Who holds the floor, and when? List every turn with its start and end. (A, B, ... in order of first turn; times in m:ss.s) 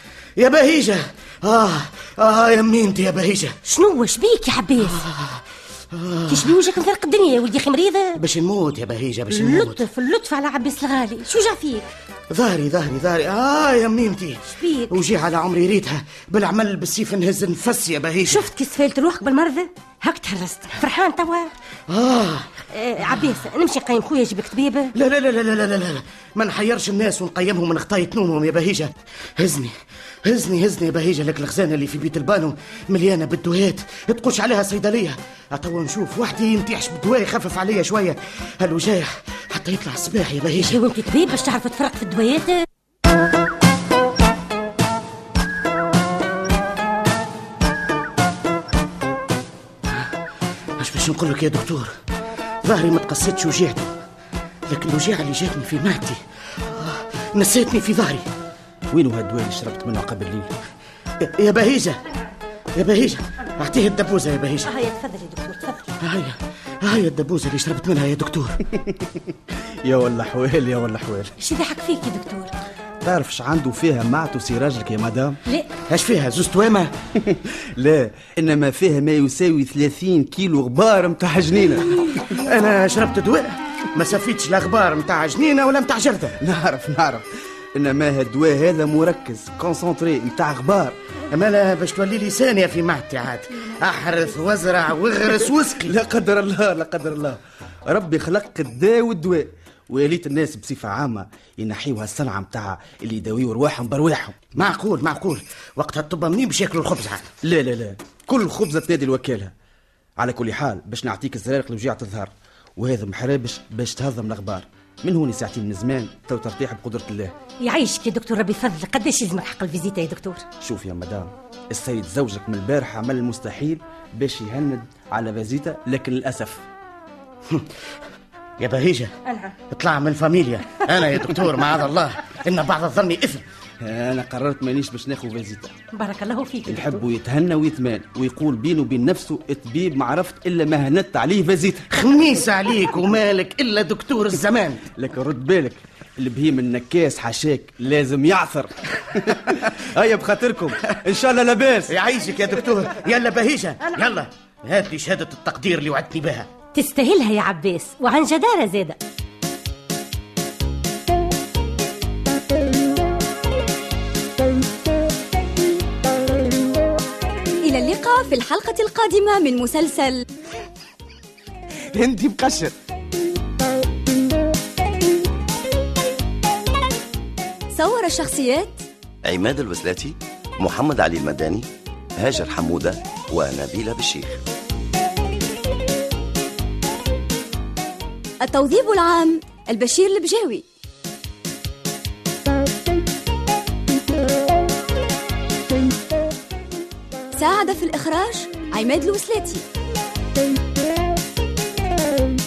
0:00.4-0:03.6 A
0:03.6-0:05.1 B
0:04.9-0:06.6 A
0:06.3-0:08.2 B
0:08.2-0:09.8 A
0:09.3-0:11.9 B
0:12.3-0:18.5 A
0:14.6-0:15.0 B
0:18.3-0:21.5 B
0:21.9-0:22.5 A
0:22.7-0:24.9 B
0:24.9-0:29.7 A
0:30.2-0:40.8 A
0:40.6-0:42.6 B
0:50.8-0:51.9 A
0:52.6-0:53.9 A
0:54.7-0:58.2 A
0:58.9-1:00.5 C
1:01.2-1:02.0 A
1:02.8-1:04.7 A
1:04.6-1:05.9 B
1:06.0-1:08.6 A
1:08.7-1:11.3 C
1:11.4-1:12.5 B
1:13.0-1:15.4 C
1:15.9-1:16.9 A
1:17.2-1:22.2 C
1:22.0-1:26.4 A
1:26.4-1:31.0 C
1:31.3-1:35.9 A
1:35.8-1:44.4 C
1:44.5-1:47.3 A
1:47.4-1:49.5 C
1:50.2-1:57.3 C
1:57.6-2:00.4 B
2:00.6-2:06.6 C
2:08.6-2:09.1 A
2:09.2-2:09.5 B
2:09.7-2:13.4 A
2:13.8-2:15.7 C
2:15.9-2:17.1 B
2:16.6-2:21.9 C
2:21.9-2:24.8 A
2:24.9-2:31.9 C
2:31.9-2:36.5 A
2:36.7-2:39.0 B
2:47.6-2:50.2 D
2:57.7-2:58.8 D
2:59.2-3:04.4 E
3:08.4-3:10.6 D
3:17.3-3:19.6 D